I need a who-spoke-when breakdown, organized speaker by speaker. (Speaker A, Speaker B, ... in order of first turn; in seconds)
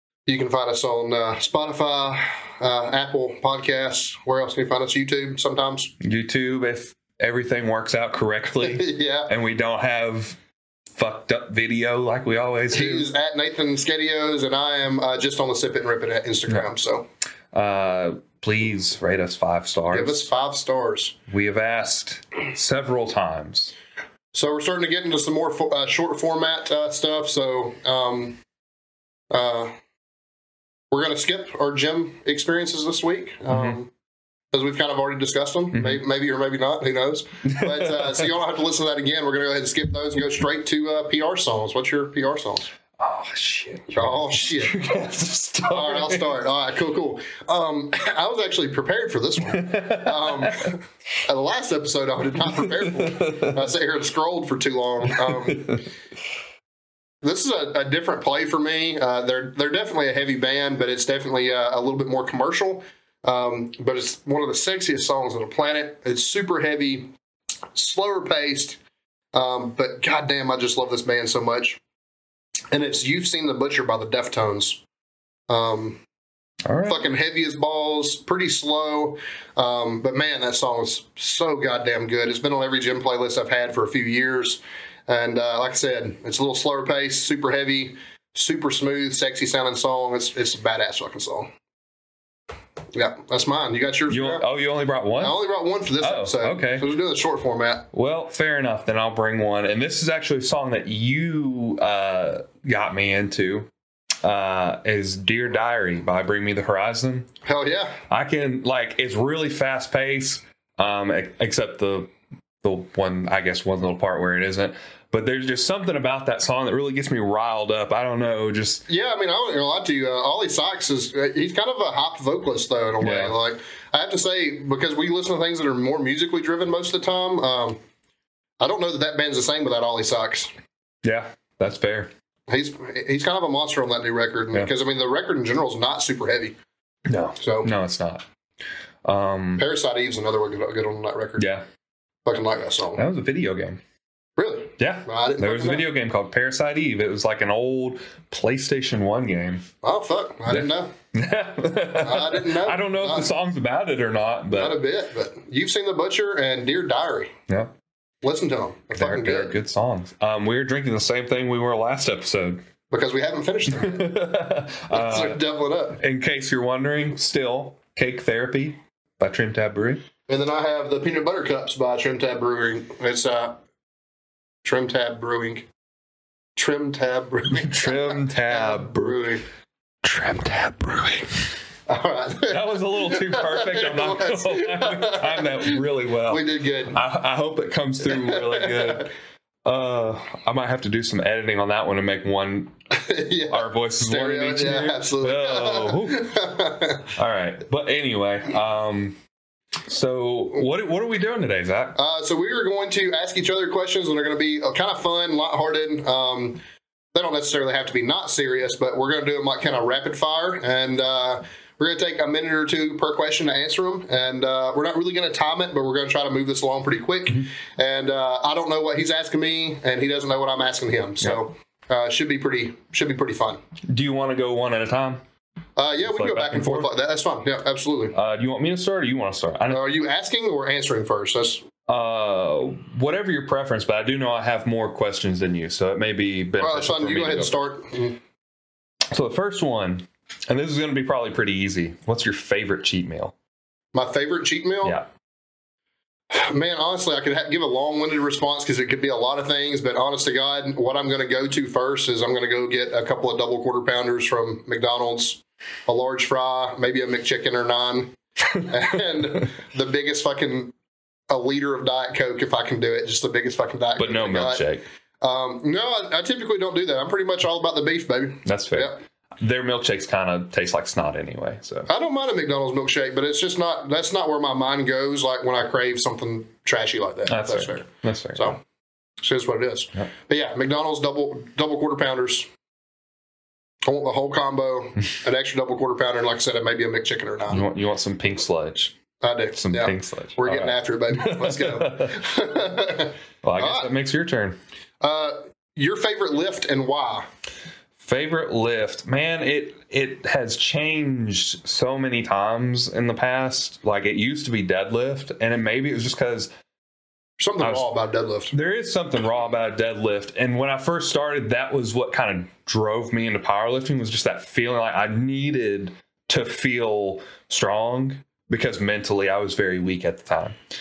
Speaker A: 0.2-5.9, 8.6-9.3, 12.7-17.1, 19.9-21.1, 24.3-28.4, 29.3-29.7, 30.9-33.9, 34.5-42.7, 43.9-44.9, 45.7-55.8, 57.2-67.1, 67.7-68.8, 69.3-71.8, 72.7-74.8, 75.5-76.0, 76.9-91.5, 92.9-94.5, 95.2-97.9, 107.4-108.0, 118.9-127.8, 128.6-130.5, 132.5-136.6, 137.4-137.7, 139.6-141.5, 142.2-143.0, 144.4-145.9, 149.8-150.9, 152.0-153.3, 154.5-157.3, 158.2-159.5, 162.9-164.2, 164.9-166.0, 170.3-173.6, 174.6-175.7, 176.6-179.4, 181.9-187.0, 188.0-189.1, 192.9-197.1, 201.9-206.6, 207.1-223.6, 225.8-228.1, 229.7-231.6, 236.6-238.2, 243.9-245.0, 246.3-260.7, 261.3-264.6, 265.2-269.0, 271.9-278.6, 279.2-282.5, 283.8-287.6, 289.2-293.9, 295.0-297.2, 307.4-308.5
Speaker B: 6.0-10.4, 10.9-13.1, 17.5-20.3, 21.3-23.7, 33.5-33.8, 35.7-36.0, 37.5-38.2, 43.0-46.4, 49.5-50.7, 52.5-53.6, 55.1-55.9, 76.6-77.0, 94.1-95.4, 96.0-96.8, 97.9-103.7, 104.2-107.3, 108.1-112.1, 112.6-118.8, 123.0-123.3, 131.0-132.1, 137.1-138.2, 139.0-139.6, 141.4-141.6, 142.9-143.8, 144.8-149.7, 150.5-154.8, 158.9-162.6, 163.7-165.4, 166.0-170.0, 177.5-179.2, 180.0-181.6, 182.5-189.1, 189.6-192.7, 193.5-196.3, 197.1-199.2, 199.8-201.9, 223.9-225.2, 226.0-226.9, 228.1-229.8, 231.9-237.5, 239.1-243.3, 264.0-264.8, 268.4-271.9, 277.3-278.6, 287.5-288.9, 289.5-292.2, 293.4-294.6, 298.0-306.5, 307.6-307.9, 308.5-320.6